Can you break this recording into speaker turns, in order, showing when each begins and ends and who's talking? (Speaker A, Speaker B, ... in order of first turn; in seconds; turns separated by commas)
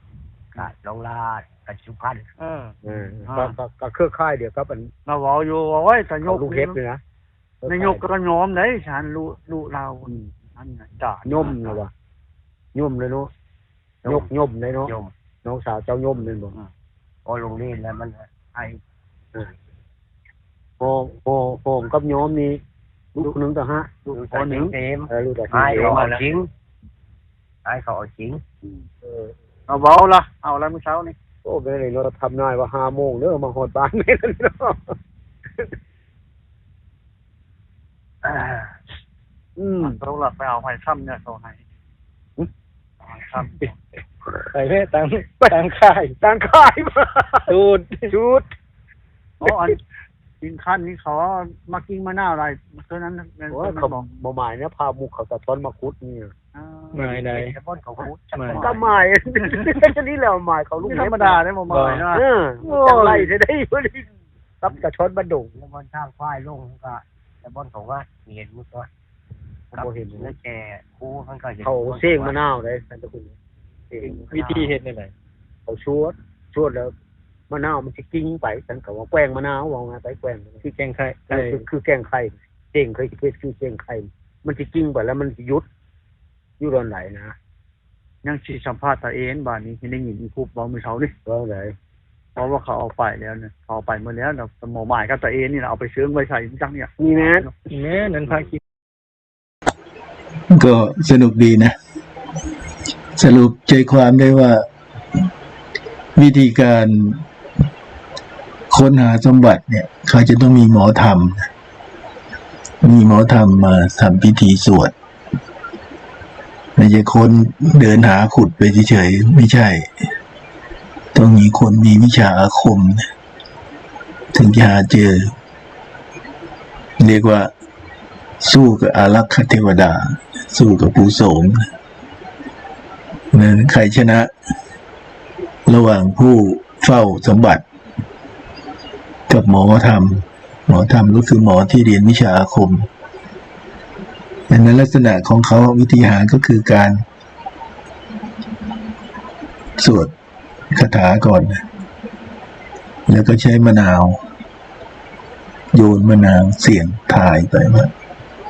Speaker A: 0.6-2.3, Speaker B: 2.4-3.5, Speaker C: 2.8-4.9, Speaker B: 5.0-6.8, Speaker C: 6.2-7.0, Speaker C: 7.6-8.0, Speaker B: 7.7-11.8, Speaker C: 11.2-11.9, Speaker C: 12.7-13.3, Speaker A: 14.0-14.3, Speaker C: 14.1-16.6, Speaker A: 14.8-15.1, Speaker A: 17.2-18.8, Speaker C: 20.8-22.6, Speaker C: 23.1-26.0, Speaker A: 24.1-26.5, Speaker B: 24.3-24.7, Speaker B: 25.7-26.3, Speaker A: 27.6-28.4, Speaker C: 29.0-29.3, Speaker B: 29.7-31.1, Speaker C: 31.4-35.0, Speaker A: 38.2-38.7, Speaker C: 39.6-40.0, Speaker B: 39.8-41.6, Speaker B: 43.0-43.8, Speaker D: 44.5-46.1, Speaker C: 46.2-47.5, Speaker D: 47.5-48.1, Speaker C: 48.1-48.5, Speaker B: 49.4-49.8, Speaker B: 50.4-54.1, Speaker C: 53.5-56.3, Speaker B: 56.5-57.1, Speaker D: 56.9-57.5, Speaker A: 57.0-58.8, Speaker D: 58.3-58.6, Speaker B: 58.5-58.8, Speaker C: 58.5-61.4, Speaker B: 59.4-59.8, Speaker B: 60.8-63.3, Speaker D: 61.7-62.0, Speaker C: 62.1-64.0, Speaker C: 64.6-65.5, Speaker A: 65.5-68.9, Speaker C: 69.7-70.3, Speaker A: 69.7-72.4, Speaker C: 71.6-73.3, Speaker C: 73.9-74.7, Speaker D: 74.0-75.1, Speaker C: 75.7-76.9, Speaker C: 77.5-80.7, Speaker D: 80.6-81.6, Speaker C: 81.3-85.7, Speaker C: 86.6-87.3, Speaker B: 88.2-91.1, Speaker C: 91.2-91.7, Speaker B: 92.3-97.5, Speaker C: 97.0-97.5, Speaker D: 97.7-98.6, Speaker E: 100.5-101.7, Speaker E: 103.2-104.7, Speaker E: 106.2-107.2, Speaker E: 108.7-111.5, Speaker E: 112.8-114.9, Speaker E: 116.8-120.0, Speaker E: 121.1-123.1, Speaker E: 124.3-125.3, Speaker E: 127.0-127.5, Speaker E: 128.4-131.7, Speaker E: 133.3-134.3, Speaker E: 135.7-137.6, Speaker E: 139.3-142.9, Speaker E: 144.5-147.0, Speaker E: 149.8-150.1, Speaker E: 150.7-151.6, Speaker E: 153.1-154.2, Speaker E: 155.7-157.9